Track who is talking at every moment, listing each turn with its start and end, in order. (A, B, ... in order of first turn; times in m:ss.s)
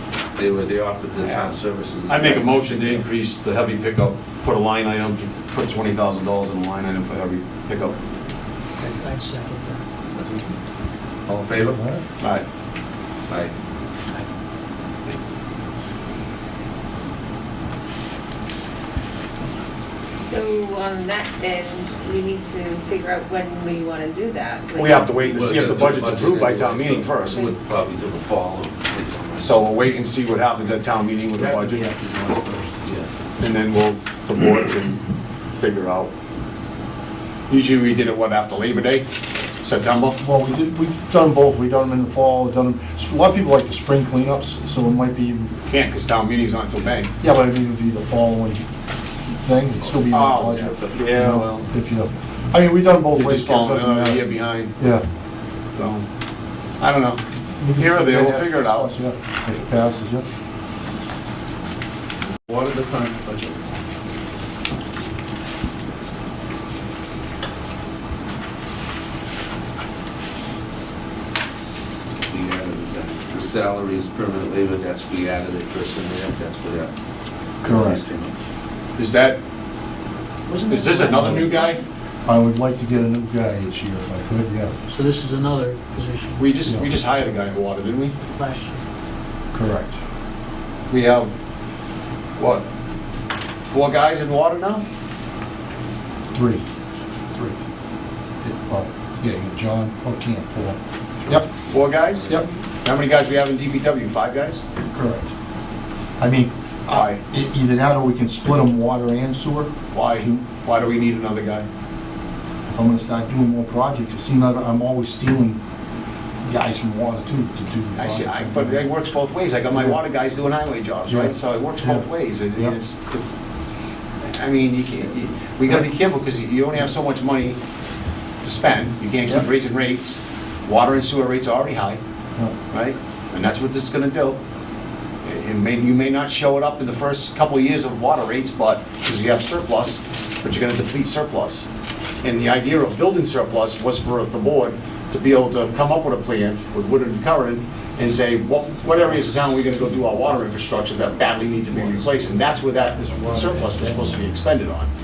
0:00.4-0:03.0 A
0:01.2-0:01.5 B
0:02.1-0:08.0 B
0:08.8-0:09.8 C
0:10.1-0:10.6 A
0:11.3-0:12.0 A
0:12.2-0:12.4 B
0:13.3-0:13.5 A
0:20.1-0:25.5 D
0:24.8-0:27.4 B
0:25.3-0:29.7 A
0:29.4-0:31.9 B
0:31.3-0:32.9 E
0:33.4-0:35.0 B
0:35.6-0:36.1 B
0:37.5-0:39.0 B
0:39.6-0:40.2 B
0:40.2-0:45.5 E
0:45.6-0:47.1 B
0:47.2-0:48.6 E
0:49.4-0:55.0 E
0:50.1-0:51.7 B
0:53.1-0:54.7 B
0:55.7-0:56.0 B
0:56.8-0:57.2 B
0:57.6-1:00.2 E
0:57.7-0:58.9 B
1:02.4-1:03.6 A
1:12.2-1:16.9 A
1:17.6-1:18.4 A
1:17.6-1:18.0 E
1:19.0-1:19.4 B
1:20.5-1:21.8 C
1:20.7-1:21.8 B
1:22.2-1:24.7 E
1:24.9-1:26.5 C
1:26.4-1:28.1 B
1:28.3-1:28.8 C
1:29.5-1:30.0 E
1:30.9-1:31.4 B
1:32.4-1:32.6 B
1:33.7-1:34.8 B
1:36.3-1:36.6 E
1:37.3-1:37.6 E
1:38.4-1:41.5 E
1:41.3-1:44.6 B
1:44.9-1:45.3 E
1:46.2-1:50.4 E
1:46.9-1:47.2 B
1:49.9-1:51.6 B
1:52.6-1:55.6 E
1:56.4-1:58.8 E
1:58.0-2:03.2 B
2:01.1-2:02.8 E
2:04.2-2:07.6 B
2:08.4-2:12.0 B
2:12.7-2:14.4 B
2:15.2-2:21.7 B
2:22.2-2:34.9 B
2:32.9-2:34.3 E